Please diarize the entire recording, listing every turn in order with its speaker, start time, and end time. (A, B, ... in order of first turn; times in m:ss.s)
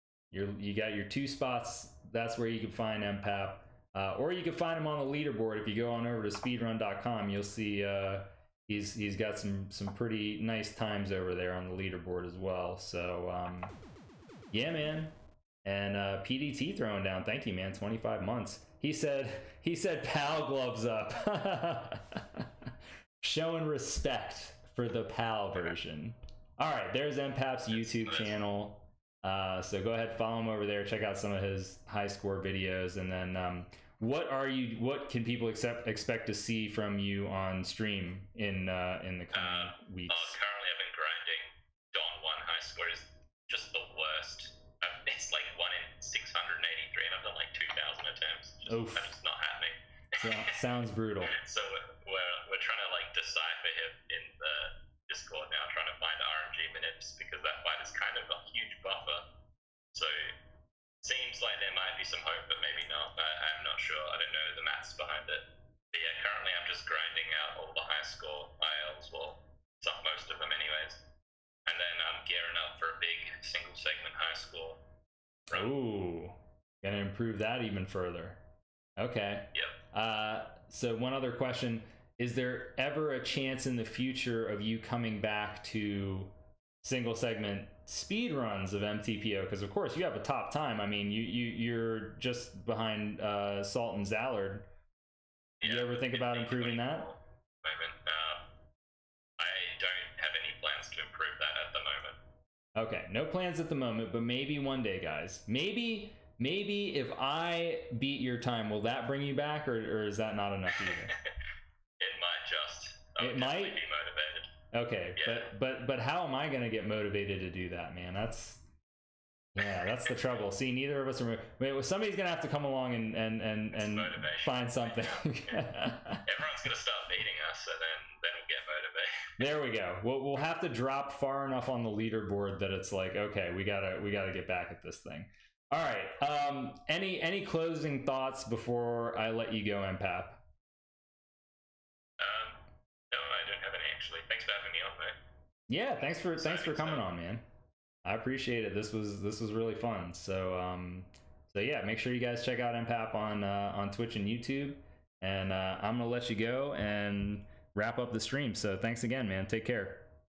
0:00.3-0:13.8 A
0:14.5-0:22.5 A
0:23.2-0:40.4 A
0:27.7-0:28.4 B
0:39.3-0:50.6 B
0:48.7-0:49.1 A
0:50.2-0:51.4 A
0:51.3-0:59.3 B
0:59.9-1:00.4 B
1:01.0-1:11.0 B
1:11.7-1:14.8 B
1:15.5-1:18.4 A
1:19.0-1:34.7 A
1:35.6-1:38.5 B
1:35.6-1:37.1 A
1:39.4-1:42.2 B
1:42.8-1:51.2 A
1:50.8-1:51.4 B
1:52.0-1:54.5 B
1:53.2-1:53.8 A
1:54.7-1:58.6 A
1:55.2-1:55.5 B
1:59.6-2:06.3 A
2:03.7-2:05.6 B
2:06.2-2:09.5 B
2:09.4-2:20.4 A
2:22.2-2:25.2 B
2:25.7-2:27.4 A
2:26.4-2:27.0 B
2:28.0-2:40.1 A